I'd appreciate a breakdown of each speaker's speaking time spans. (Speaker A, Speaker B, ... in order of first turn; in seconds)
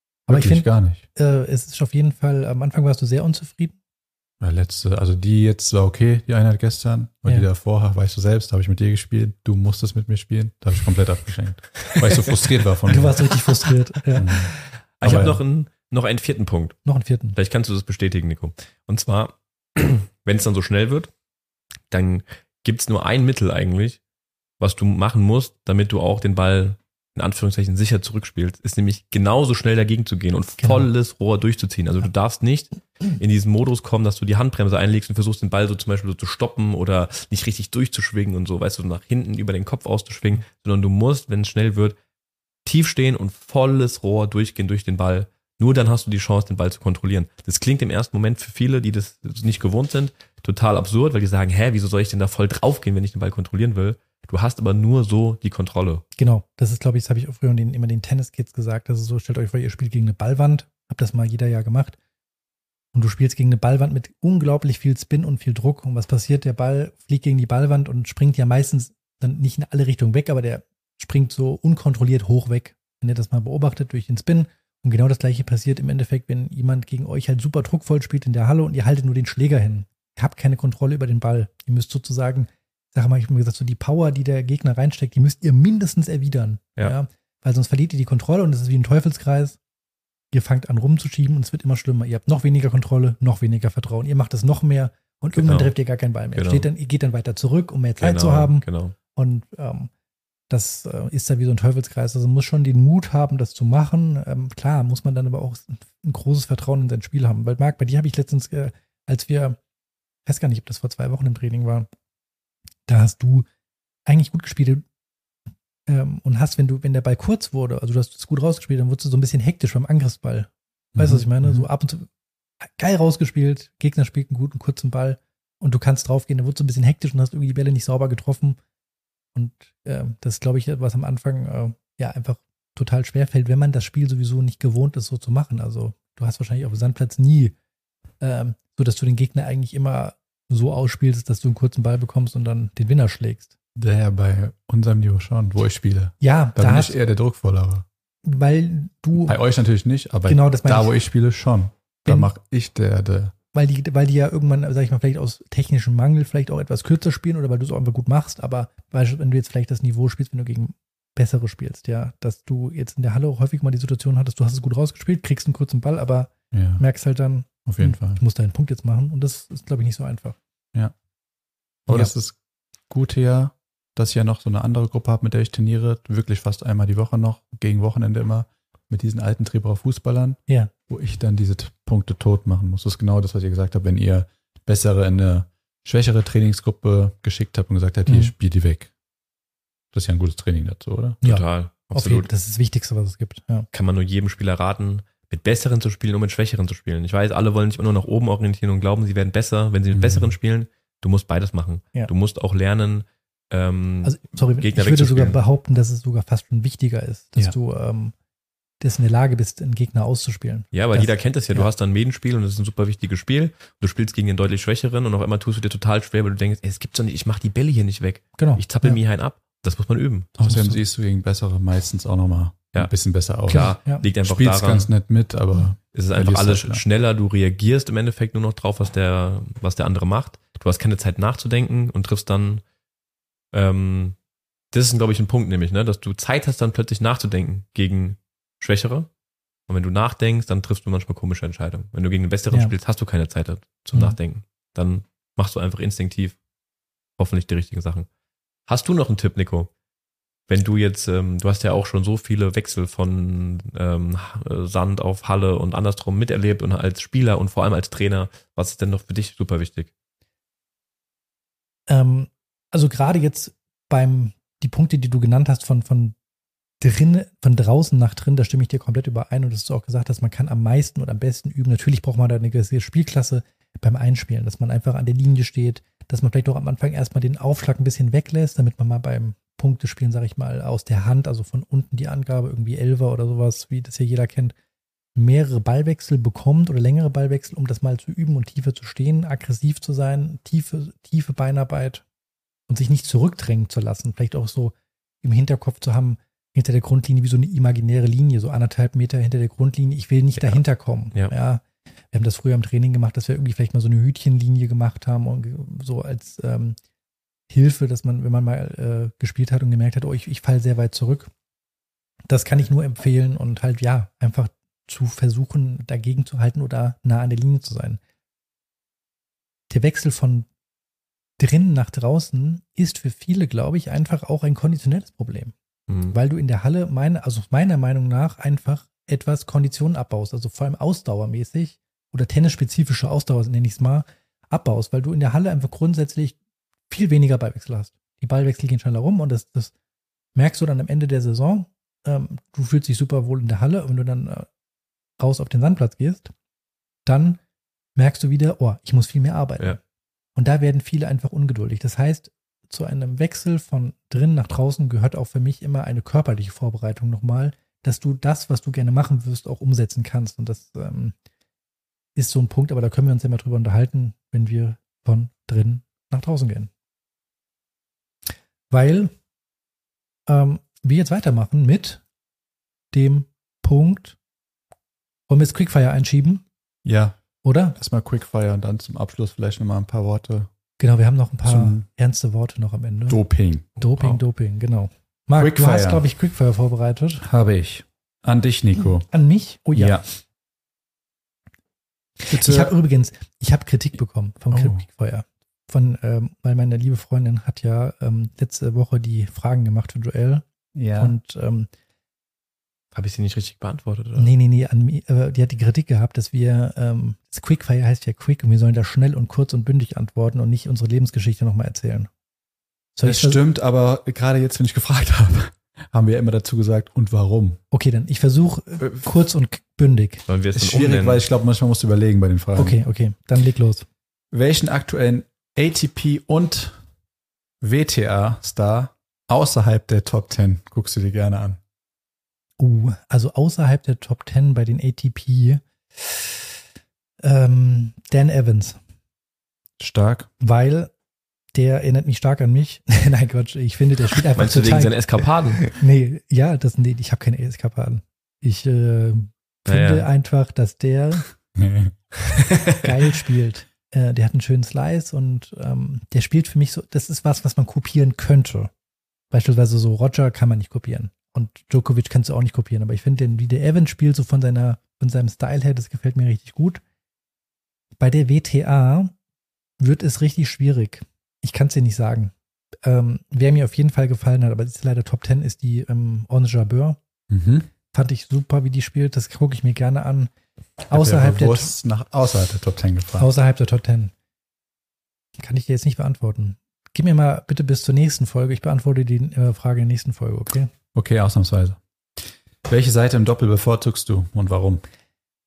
Speaker A: 0.3-3.8, 12.9-14.3, 16.9-17.4, 30.6-30.9, 56.2-62.0, 62.9-89.6, 90.3-99.9, 100.5-109.6, 110.2-111.9, 112.9-113.5, 114.0-114.8, 115.9-122.1, 122.6-128.6, 129.3-137.5, 138.2-143.5, 146.2-146.9, 148.2-149.4, 150.2-150.9, 153.5-170.4, 188.1-188.3, 191.2-193.7, 204.0-208.1, 208.8-211.7, 218.4-219.0, 220.3-220.8, 223.5-224.0, 261.9-266.1, 266.8-284.5, 285.1-292.0, 292.7-306.8, 307.5-311.3, 312.3-318.0, 319.7-320.5, 321.4-325.5, 326.1-336.4, 336.9-339.7, 340.3-344.5, 345.2-346.3, 347.1-347.4, 347.9-349.8, 350.4-361.1, 362.1-366.7, 368.7-369.1, 370.3-372.0, 372.9-374.2, 375.3-376.4, 377.4-377.8, 380.8-383.2, 383.8-387.2, 389.1-390.0, 392.2-400.4, 400.9-401.7, 404.1-412.1, 412.9-413.4, 417.7-420.2, 422.6-423.9, 432.6-436.4, 437.2-438.8, 440.4-440.9, 441.5-451.3, 452.8-458.7, 459.3-466.8, 468.0-469.1, 469.8-472.3, 472.8-477.0, 477.9-480.3, 480.9-481.7, 483.2-484.1, 485.4-490.7
Speaker B: 0.3-1.0, 4.4-13.3, 14.2-15.4, 121.0-121.7, 143.7-147.8, 149.2-153.3, 166.5-166.8, 167.7-168.2, 171.8-172.4, 172.9-188.9, 189.9-191.2, 199.9-200.3, 220.4-226.8, 376.8-377.2, 377.8-380.5, 381.4-381.9, 383.1-383.7, 385.4-386.0, 387.2-389.1, 389.7-390.0, 392.3-392.7, 394.5-394.9, 400.7-401.1, 413.0-417.6, 420.5-422.8, 424.3-426.8, 427.6-431.6, 439.8-440.3, 451.5-451.9, 477.3-477.7, 480.9-483.3, 490.9-494.8
Speaker C: 11.9-12.5, 14.2-16.8, 17.3-21.1, 21.9-24.0, 24.6-42.0, 42.6-56.0, 95.4-95.7, 96.3-96.7, 98.0-98.9, 191.2-192.3, 193.7-205.4, 210.7-220.3, 223.5-224.9, 225.9-232.6, 233.5-234.2, 234.7-239.1, 239.7-246.4, 247.2-248.1, 248.7-249.7, 250.5-259.9, 325.9-326.1, 402.9-404.3, 420.3-421.2, 444.4-445.7, 449.7-450.1, 452.3-452.8